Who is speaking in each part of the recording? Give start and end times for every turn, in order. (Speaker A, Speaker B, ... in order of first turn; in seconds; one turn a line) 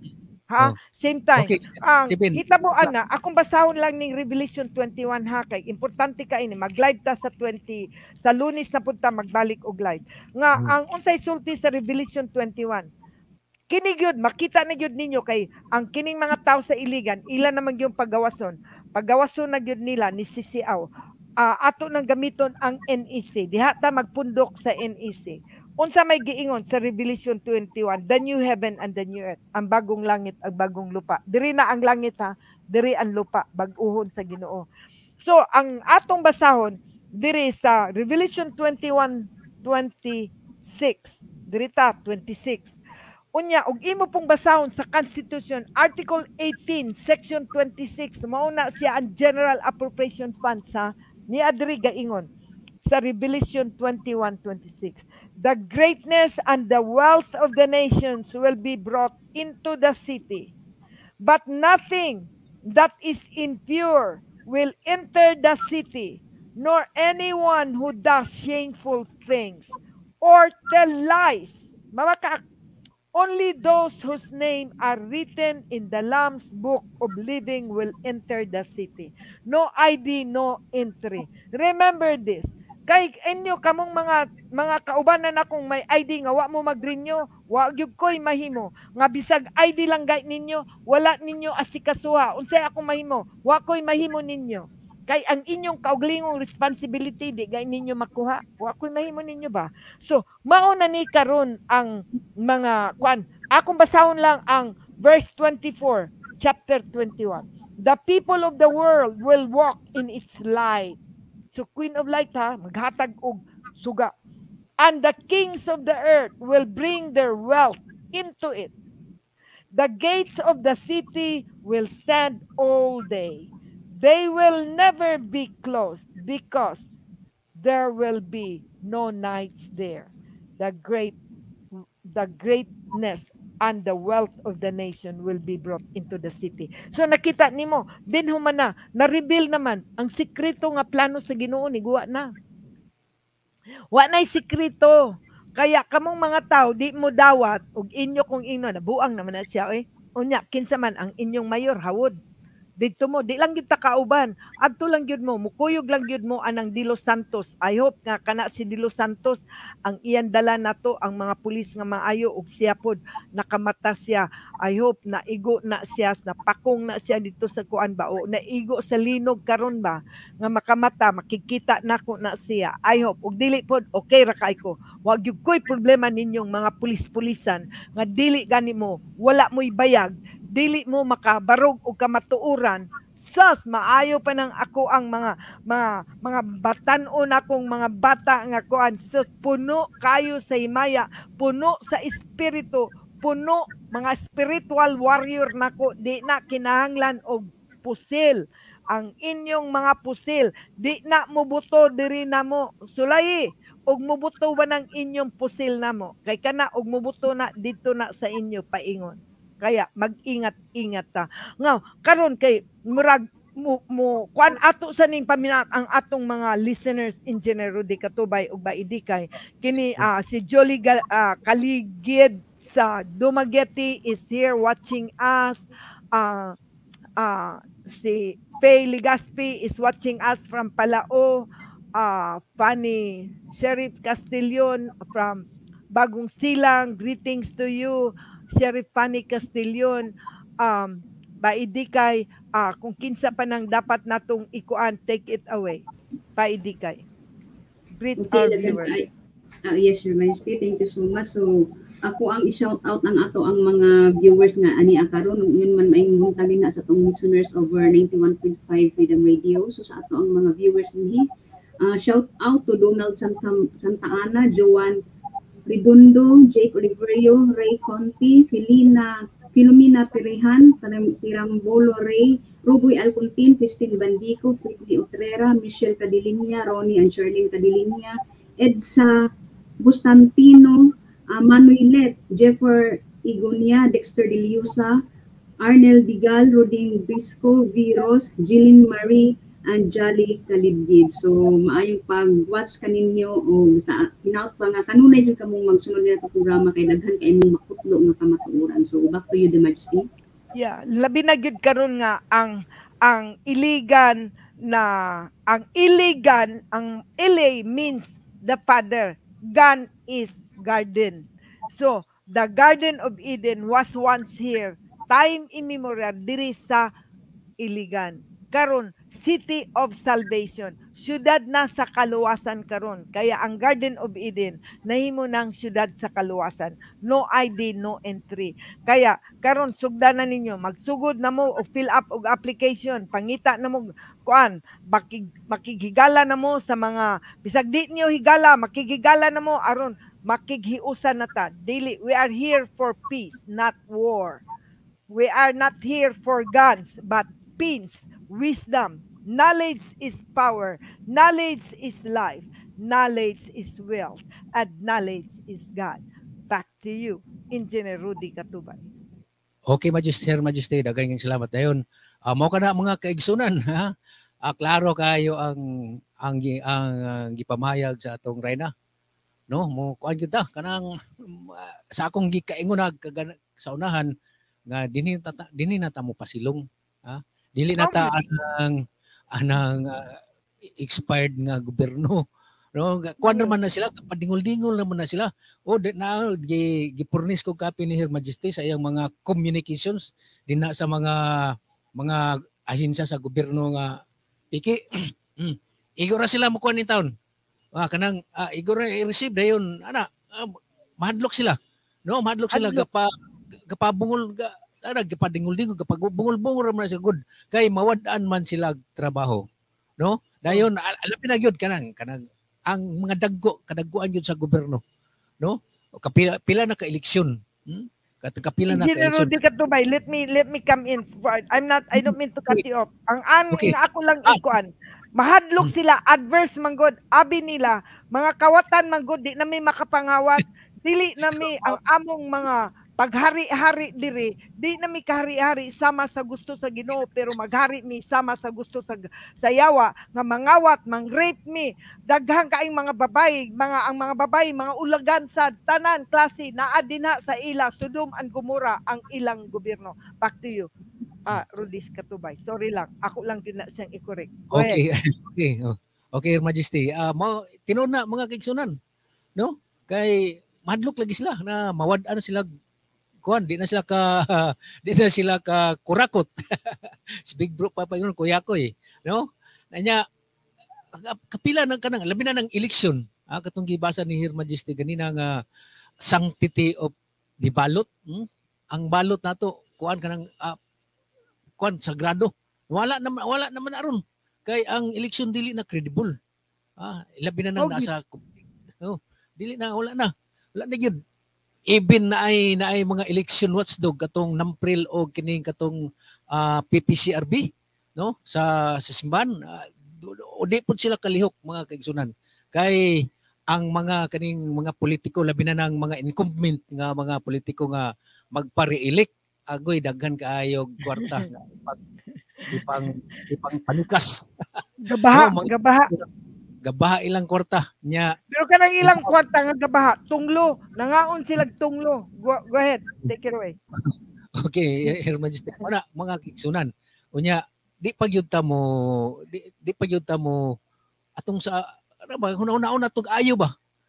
Speaker A: 0.5-12.9
Speaker B: 1.4-2.9
Speaker A: 13.7-20.9
Speaker A: 21.4-34.7
Speaker A: 35.2-42.7
Speaker A: 43.4-52.3
Speaker A: 52.8-60.5
Speaker A: 61.2-69.7
Speaker A: 70.2-72.4
Speaker A: 73.2-111.0
Speaker A: 111.5-114.1
Speaker A: 114.8-118.7
Speaker A: 119.7-126.8
Speaker A: 127.6-131.2
Speaker A: 132.1-142.3
Speaker A: 143.9-145.0
Speaker A: 145.6-152.2
Speaker A: 152.8-226.6
Speaker A: 227.2-240.1
Speaker A: 240.6-245.8
Speaker A: 246.4-247.0
Speaker A: 248.0-248.9
Speaker C: 248.2-249.1
Speaker C: 249.7-251.5
Speaker C: 252.1-261.2
Speaker C: 261.8-265.0
Speaker C: 265.7-279.2
Speaker C: 279.8-285.0
Speaker C: 285.6-300.1
Speaker A: 300.6-316.9
Speaker A: 317.6-344.4
Speaker A: 345.1-358.8
Speaker B: 359.7-363.9
Speaker B: 364.5-368.7
Speaker B: 369.5-374.1
Speaker B: 374.7-378.8
Speaker A: 377.8-378.1
Speaker B: 379.4-380.1
Speaker B: 380.8-382.2
Speaker B: 382.8-393.9
Speaker A: 383.2-383.5
Speaker B: 394.5-394.8
Speaker B: 395.4-397.1
Speaker B: 397.8-401.6
Speaker B: 402.1-403.1
Speaker A: 402.5-402.9
Speaker B: 403.7-409.4
Speaker B: 410.0-414.8
Speaker B: 415.4-419.4
Speaker A: 418.7-450.7
Speaker B: 422.0-422.6
Speaker B: 431.3-431.8
Speaker A: 451.2-454.8
Speaker B: 454.5-458.8
Speaker B: 459.4-462.5
Speaker B: 463.2-470.0
Speaker B: 470.9-475.4
Speaker B: 476.1-476.9
Speaker B: 477.4-480.6
Speaker B: 481.6-486.1
Speaker B: 486.8-488.3
Speaker A: 487.6-487.9
Speaker B: 488.8-491.0
Speaker B: 491.7-495.8
Speaker B: 496.3-511.8
Speaker A: 511.0-511.3
Speaker B: 512.5-516.1
Speaker A: 514.8-515.9
Speaker B: 516.6-518.1
Speaker A: 518.3-523.6
Speaker B: 518.8-519.1
Speaker B: 523.8-530.5
Speaker B: 531.2-533.5